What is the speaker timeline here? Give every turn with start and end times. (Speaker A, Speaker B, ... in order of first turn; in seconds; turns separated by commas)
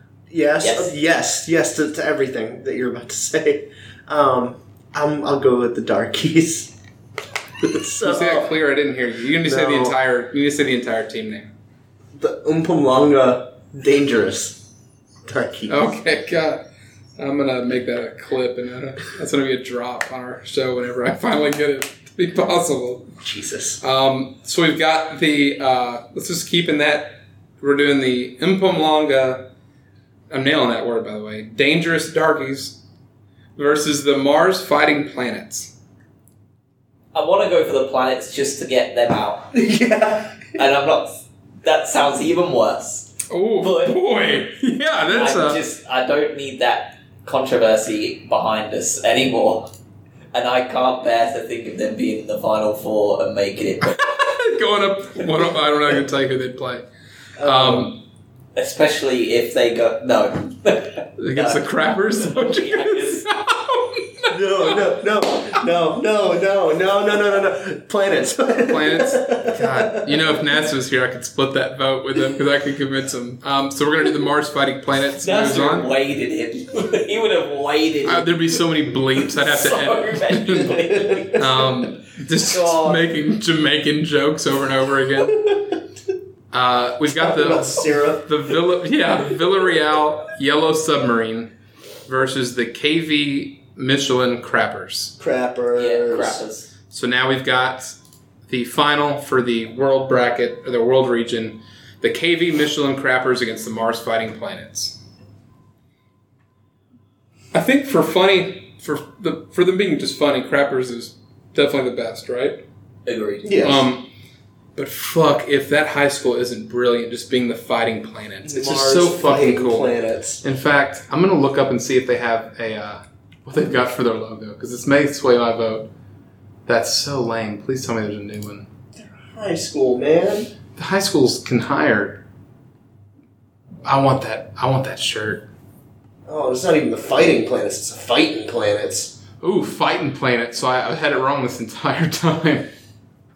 Speaker A: 0.3-6.7, Speaker B: 0.6-0.9, Speaker A: 7.6-8.5, Speaker C: 8.0-11.5, Speaker A: 9.4-9.9, Speaker A: 12.1-14.6, Speaker A: 15.3-15.9, Speaker C: 15.7-16.6, Speaker C: 17.2-23.1, Speaker A: 23.2-23.8, Speaker C: 23.8-29.5, Speaker C: 30.3-32.8, Speaker C: 33.6-35.7, Speaker B: 37.1-39.5, Speaker A: 39.5-40.5, Speaker B: 40.5-44.0, Speaker C: 43.3-45.6, Speaker B: 45.1-49.7, Speaker B: 50.3-53.9, Speaker C: 53.8-56.9, Speaker A: 57.4-57.9, Speaker C: 57.4-58.0, Speaker B: 58.6-61.6, Speaker C: 61.2-64.8, Speaker B: 62.1-63.3, Speaker A: 64.3-70.3, Speaker C: 68.6-75.9, Speaker B: 75.2-78.5, Speaker C: 78.1-85.6, Speaker B: 79.1-81.7, Speaker B: 82.3-83.0, Speaker C: 86.5-91.5, Speaker A: 87.1-88.3, Speaker C: 92.1-95.1, Speaker A: 95.2-96.4, Speaker B: 95.8-96.7, Speaker C: 96.9-98.0, Speaker C: 98.5-105.0, Speaker C: 107.5-112.6, Speaker B: 113.1-113.5, Speaker A: 113.4-113.9, Speaker C: 113.6-114.1, Speaker C: 114.8-119.9, Speaker A: 118.5-120.4, Speaker C: 120.4-125.9, Speaker C: 126.7-128.7, Speaker A: 129.0-130.5, Speaker C: 130.8-132.2, Speaker C: 133.8-135.4, Speaker A: 136.3-139.2, Speaker C: 139.4-142.7